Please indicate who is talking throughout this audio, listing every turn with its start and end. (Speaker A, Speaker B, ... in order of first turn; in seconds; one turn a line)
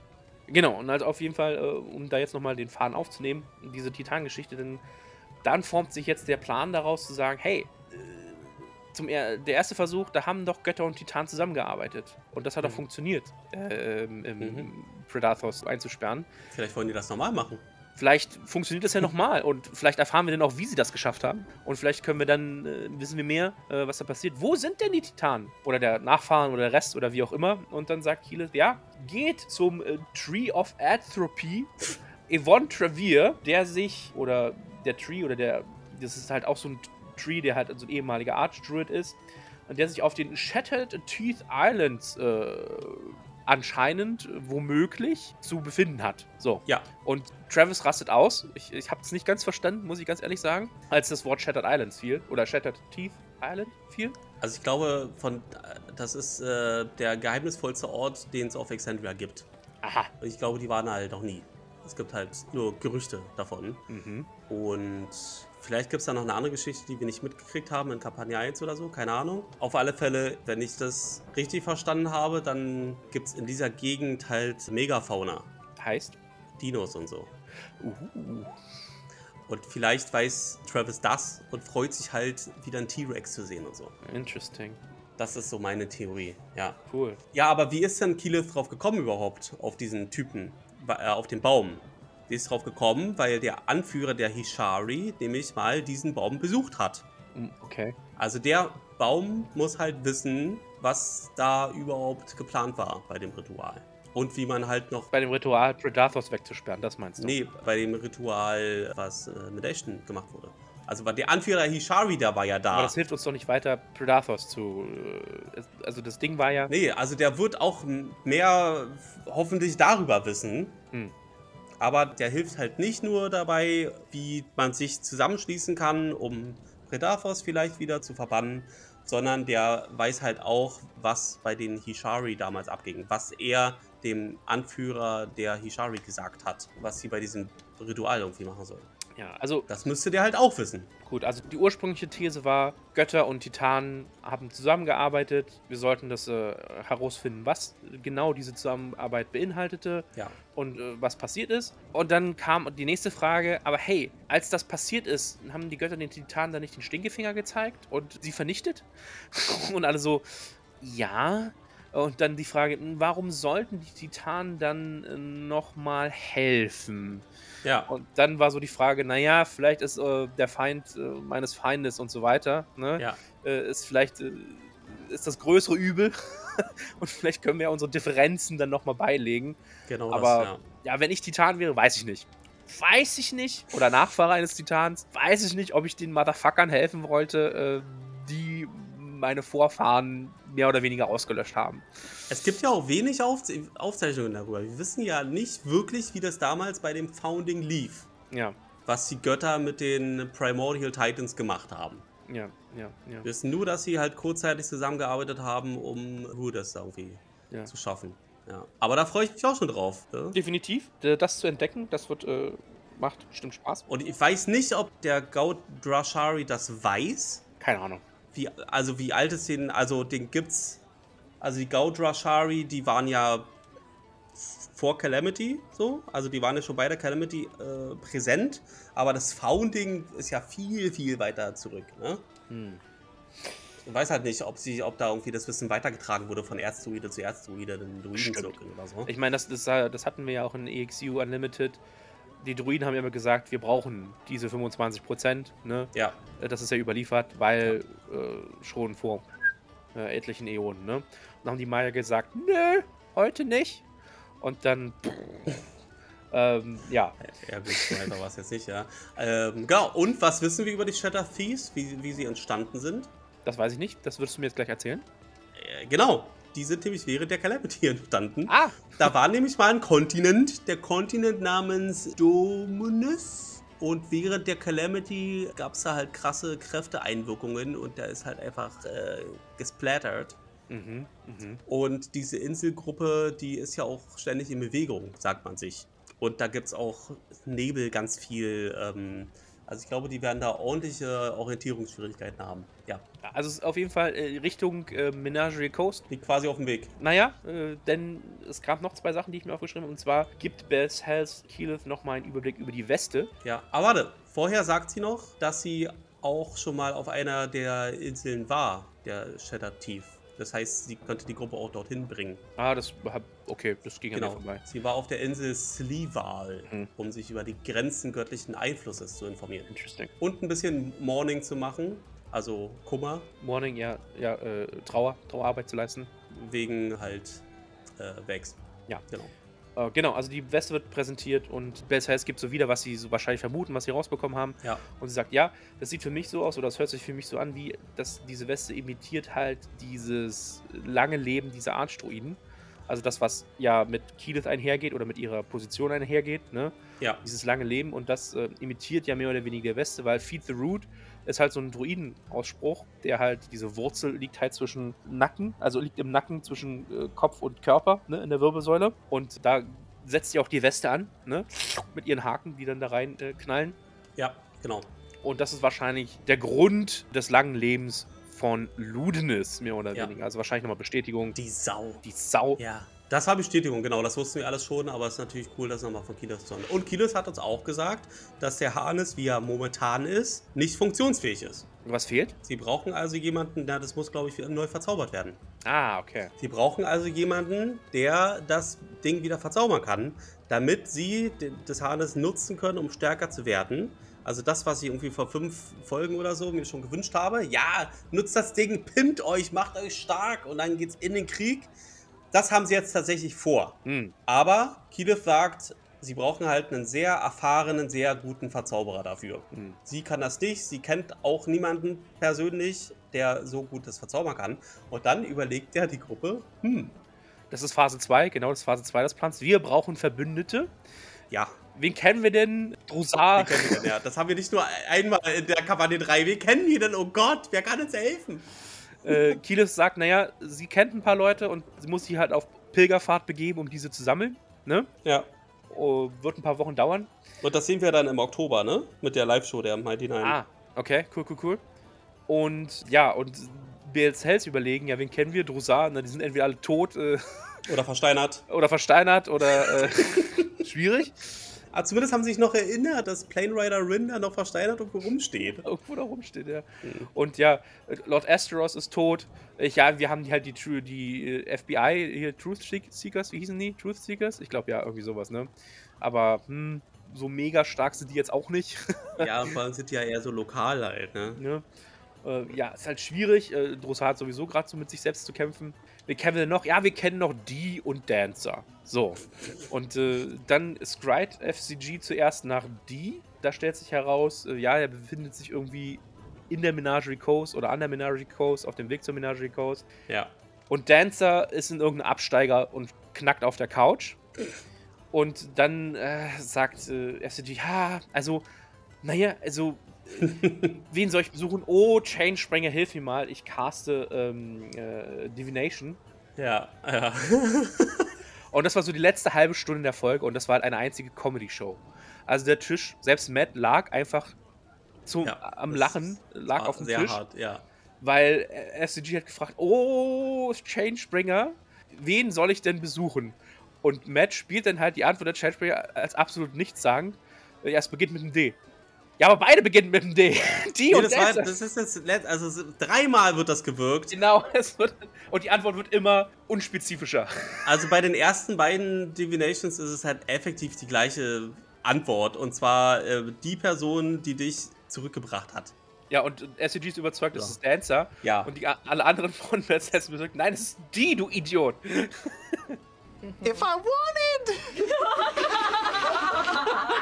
Speaker A: 0.5-4.8
Speaker A: 5.4-16.3
Speaker B: 14.4-14.7
Speaker B: 16.5-17.6
Speaker A: 18.0-54.2
Speaker B: 54.4-59.5
Speaker A: 59.8-60.1
Speaker B: 60.2-63.9
Speaker A: 63.9-64.3
Speaker B: 64.5-75.5
Speaker A: 75.8-76.2
Speaker B: 76.6-77.3
Speaker A: 77.8-78.6
Speaker B: 79.5-84.0
Speaker A: 84.0-84.8
Speaker B: 85.2-86.8
Speaker A: 86.9-87.2
Speaker B: 87.3-97.0
Speaker A: 97.3-98.0
Speaker B: 98.2-105.1
Speaker A: 105.1-107.4
Speaker B: 107.2-112.9
Speaker A: 112.7-116.7
Speaker B: 116.7-120.8
Speaker B: 121.8-138.9
Speaker A: 139.2-139.7
Speaker B: 139.7-140.9
Speaker A: 141.0-167.2
Speaker B: 167.6-167.9
Speaker A: 167.9-179.6
Speaker B: 179.9-180.6
Speaker A: 180.1-191.9
Speaker B: 192.3-198.1
Speaker A: 198.3-198.6
Speaker B: 198.9-202.1
Speaker A: 202.3-203.3
Speaker B: 203.2-210.4
Speaker A: 210.3-213.9
Speaker B: 213.9-217.4
Speaker A: 217.6-218.0
Speaker B: 218.3-220.8
Speaker B: 221.4-223.5
Speaker B: 224.4-232.2
Speaker A: 232.5-232.8
Speaker B: 233.8-239.1
Speaker A: 238.2-241.8
Speaker A: 242.4-249.3
Speaker A: 249.9-253.8
Speaker A: 254.4-255.6
Speaker A: 256.3-257.2
Speaker B: 257.3-263.1
Speaker A: 257.7-258.1
Speaker A: 263.4-265.1
Speaker B: 265.6-280.4
Speaker A: 268.5-269.1
Speaker A: 280.7-281.6
Speaker B: 281.7-293.0
Speaker A: 293.2-296.1
Speaker B: 296.1-296.9
Speaker A: 297.0-303.3
Speaker B: 303.4-312.4
Speaker A: 312.6-314.6
Speaker B: 314.1-319.7
Speaker A: 319.7-320.1
Speaker B: 320.2-323.3
Speaker A: 323.4-326.1
Speaker B: 326.3-327.4
Speaker B: 328.0-329.3
Speaker A: 329.8-363.8
Speaker B: 364.2-364.9
Speaker A: 365.2-371.4
Speaker B: 371.4-372.0
Speaker A: 372.0-372.6
Speaker B: 372.6-381.7
Speaker A: 381.8-382.4
Speaker B: 382.4-385.4
Speaker A: 385.6-386.3
Speaker B: 386.4-401.7
Speaker B: 402.3-417.0
Speaker A: 403.9-404.1
Speaker A: 409.5-409.8
Speaker A: 417.5-420.7
Speaker B: 421.3-421.6
Speaker A: 421.8-423.9
Speaker B: 423.4-428.5
Speaker A: 429.0-434.9
Speaker A: 435.7-437.1
Speaker B: 437.4-440.4
Speaker A: 440.2-441.6
Speaker A: 442.3-447.6
Speaker B: 447.7-448.5
Speaker A: 448.5-451.5
Speaker B: 449.6-450.6
Speaker B: 451.7-455.7
Speaker A: 455.6-469.3
Speaker B: 456.8-457.1
Speaker B: 469.2-471.4
Speaker A: 471.4-471.6
Speaker A: 472.2-489.9
Speaker A: 490.7-494.2
Speaker A: 495.1-498.4
Speaker A: 499.0-500.3
Speaker B: 500.2-500.8
Speaker A: 500.9-506.0
Speaker B: 506.4-508.1
Speaker A: 508.5-514.3
Speaker A: 515.1-517.2
Speaker B: 515.2-517.6
Speaker A: 518.0-528.6
Speaker A: 529.2-531.5
Speaker B: 530.9-534.2
Speaker A: 534.1-537.7
Speaker B: 537.6-545.7
Speaker A: 546.1-552.8
Speaker B: 548.2-548.5
Speaker C: 553.4-556.4